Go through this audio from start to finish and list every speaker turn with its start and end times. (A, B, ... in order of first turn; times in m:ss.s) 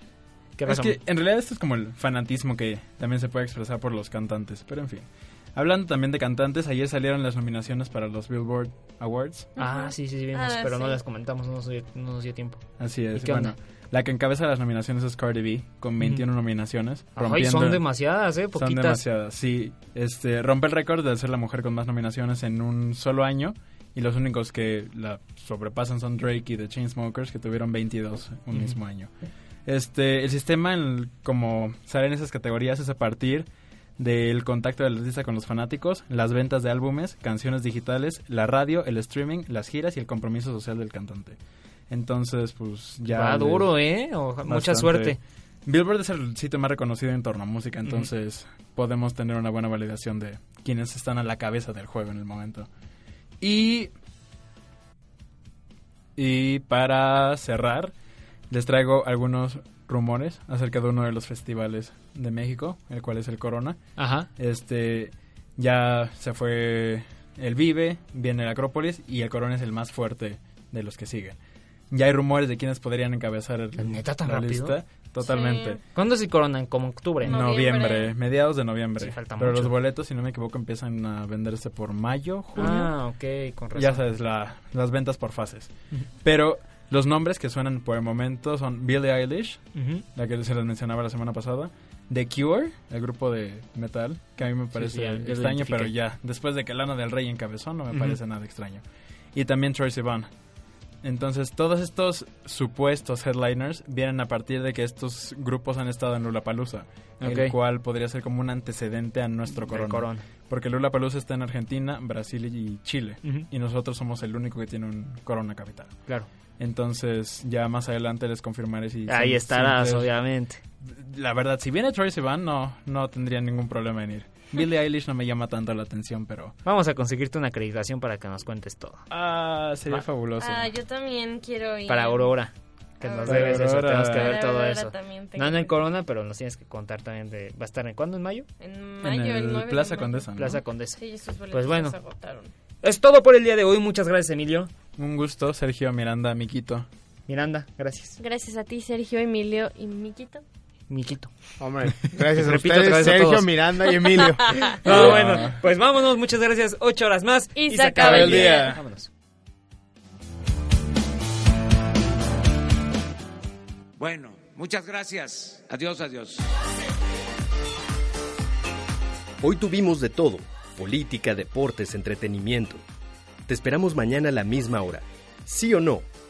0:00.6-0:01.0 A
0:00.7-0:09.5 B
0:09.6-0:11.0 C
0:09.6-0:12.6 A
0:12.8-0:17.9 B
0:13.1-0:13.5 A
0:17.2-0:19.0 A
0:18.6-0:29.1 B
0:28.5-0:28.8 A
0:29.7-0:33.5 B
0:34.0-0:41.4 B
0:41.9-0:43.7 B
0:43.1-0:45.2 A
0:44.4-0:52.7 B
0:53.4-0:53.9 B
0:56.2-0:57.9 B
0:58.5-1:03.8 B
1:04.0-1:04.3 A
1:04.4-1:11.4 B
1:11.9-1:15.8 B
1:13.8-1:14.8 A
1:15.2-1:15.8 C
1:15.9-1:17.4 A
1:17.2-1:18.1 C
1:17.3-1:22.9 B
1:19.0-1:19.8 A
1:22.6-1:24.0 A
1:23.8-1:38.8 B
1:29.8-1:30.0 A
1:34.8-1:35.9 A
1:37.9-1:38.2 A
1:39.4-1:40.3 B
1:41.0-1:56.0 B
1:47.2-1:47.5 A
1:49.5-1:50.2 A
1:56.6-2:00.1 B
1:59.1-2:00.6 A
2:00.8-2:06.6 B
2:06.6-2:09.0 A
2:09.1-2:10.7 B
2:10.4-2:12.3 C
2:11.9-2:18.5 A
2:13.0-2:15.8 C
2:13.2-2:14.4 B
2:18.6-2:20.3 C
2:19.0-2:20.6 B
2:20.4-2:22.0 A
2:21.0-2:22.5 C
2:22.8-2:24.7 A
2:25.0-2:26.9 B
2:27.3-2:28.2 A
2:28.2-2:30.4 C
2:30.9-2:31.3 A
2:31.6-2:34.6 D
2:32.3-2:33.5 A
2:34.6-2:39.1 A
2:34.8-2:35.6 B
2:37.6-2:38.8 C
2:38.0-2:38.8 B
2:44.0-2:46.5 E
2:49.4-2:52.8 F
2:53.5-2:56.1 F